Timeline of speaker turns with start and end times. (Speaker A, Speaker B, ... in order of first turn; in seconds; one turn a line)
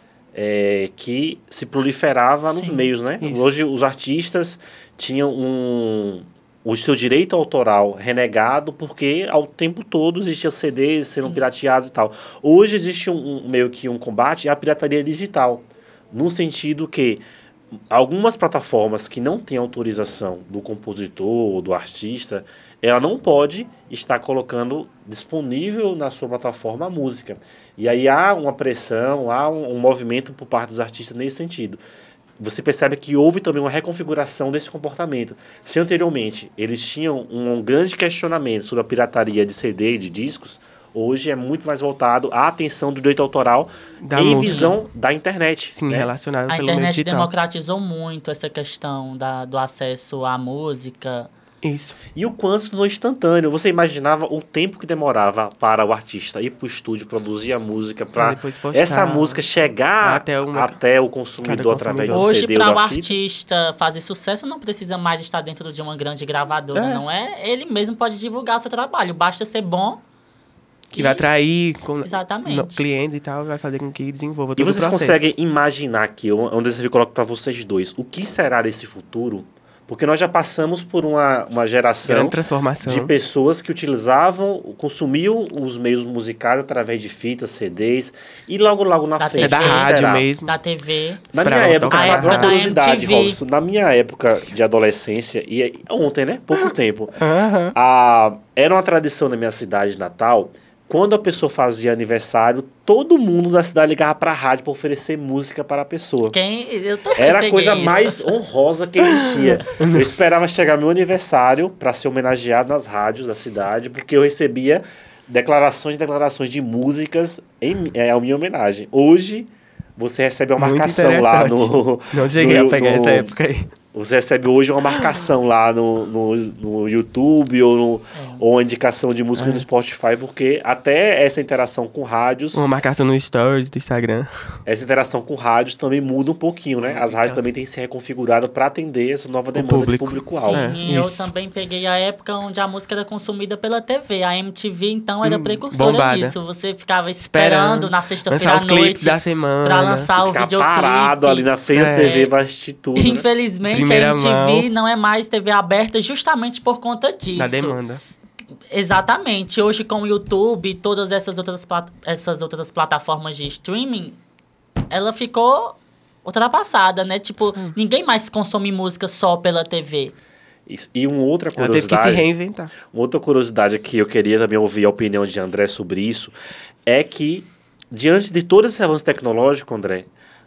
Speaker A: 0.3-17.2
Speaker B: 2.5-2.9
Speaker C: 3.2-3.5
Speaker B: 11.2-11.4
Speaker A: 17.9-31.8
Speaker A: 32.4-46.1
Speaker C: 44.0-44.8
Speaker B: 44.3-44.7
Speaker C: 45.7-47.3
Speaker B: 46.5-51.3
Speaker C: 51.6-52.0
Speaker A: 52.1-63.1
Speaker C: 58.1-59.4
Speaker C: 60.0-60.8
Speaker C: 61.4-62.3
Speaker B: 62.1-70.0
Speaker C: 66.7-67.0
Speaker C: 70.9-75.3
Speaker B: 70.9-71.2
Speaker B: 72.0-72.8
Speaker A: 74.6-90.3
Speaker C: 82.0-83.1
Speaker B: 89.2-89.9
Speaker C: 89.4-90.6
Speaker B: 90.5-91.2
Speaker A: 91.3-97.2
Speaker C: 91.3-92.6
Speaker B: 91.9-93.4
Speaker C: 96.5-97.7
Speaker A: 97.7-106.3
Speaker B: 106.3-108.3
Speaker A: 107.2-123.3
Speaker C: 109.7-110.1
Speaker C: 120.6-123.7
Speaker A: 123.9-132.6
Speaker B: 128.1-128.4
Speaker C: 129.3-129.7
Speaker C: 132.5-134.3
Speaker A: 134.7-140.7
Speaker C: 136.8-137.4
Speaker C: 139.5-141.3
Speaker B: 140.4-151.5
Speaker C: 145.2-146.4
Speaker C: 147.2-150.1
Speaker A: 150.2-153.3
Speaker C: 151.7-152.2
Speaker B: 152.0-152.3
Speaker B: 152.9-157.8
Speaker C: 153.7-154.7
Speaker C: 157.3-158.0
Speaker B: 158.7-164.2
Speaker B: 164.9-170.1
Speaker A: 170.7-172.3
Speaker C: 171.6-172.7
Speaker A: 172.9-176.3
Speaker A: 176.8-180.1